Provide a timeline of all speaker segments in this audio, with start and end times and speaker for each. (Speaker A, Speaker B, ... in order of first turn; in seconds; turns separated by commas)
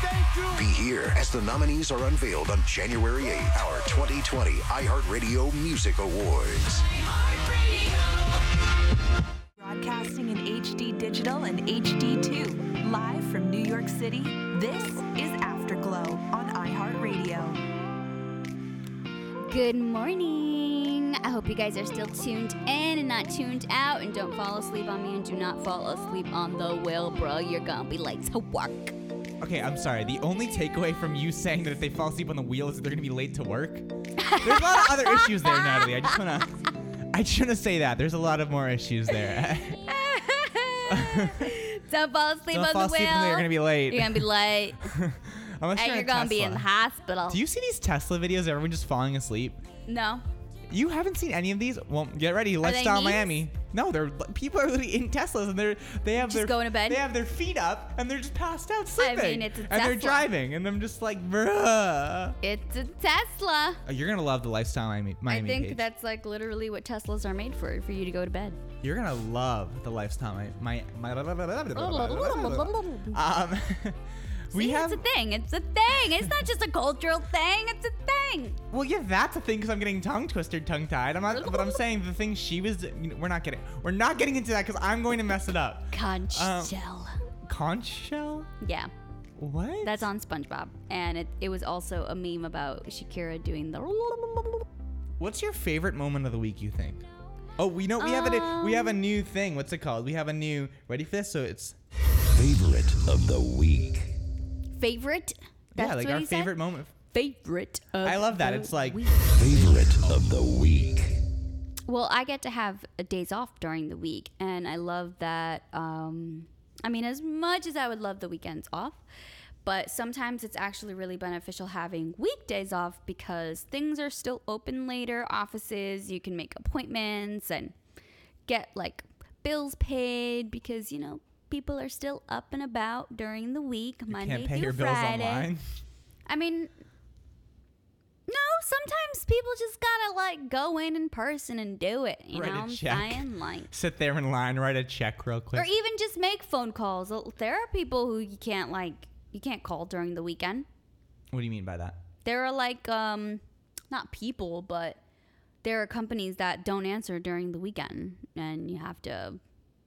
Speaker A: 0.5-6.8, Speaker B: 9.6-17.6, Speaker C: 19.4-28.9, Speaker D: 29.4-33.9, Speaker C: 34.2-36.1, Speaker D: 34.4-39.8, Speaker C: 39.9-44.9, Speaker D: 40.9-41.5, Speaker D: 42.5-44.3, Speaker D: 44.8-46.6, Speaker C: 45.8-47.4, Speaker D: 47.3-49.6, Speaker C: 49.9-50.2, Speaker D: 50.7-62.4, Speaker C: 52.6-53.4, Speaker C: 56.2-57.0, Speaker C: 59.0-60.3, Speaker C: 62.4-63.8, Speaker D: 63.9-65.8, Speaker C: 65.3-68.6, Speaker D: 68.8-75.0, Speaker C: 71.8-73.2, Speaker C: 74.5-78.6, Speaker D: 78.7-86.7, Speaker C: 81.3-81.8, Speaker C: 85.9-87.1, Speaker D: 87.5-88.5, Speaker C: 88.6-88.9, Speaker D: 89.4-90.1, Speaker C: 89.8-94.6, Speaker D: 95.2-97.0, Speaker D: 97.6-101.8, Speaker C: 98.0-99.0, Speaker E: 102.3-104.2, Speaker C: 104.8-106.6, Speaker D: 105.8-106.9, Speaker C: 107.1-109.7, Speaker D: 108.0-109.0, Speaker E: 109.2-111.2, Speaker C: 111.9-119.0, Speaker C: 119.7-127.8, Speaker C: 128.5-135.5, Speaker D: 134.1-135.6, Speaker C: 136.3-136.7, Speaker C: 138.3-143.7, Speaker D: 142.3-145.7, Speaker C: 145.5-150.7, Speaker D: 151.3-152.0, Speaker C: 152.2-155.0, Speaker C: 155.6-159.4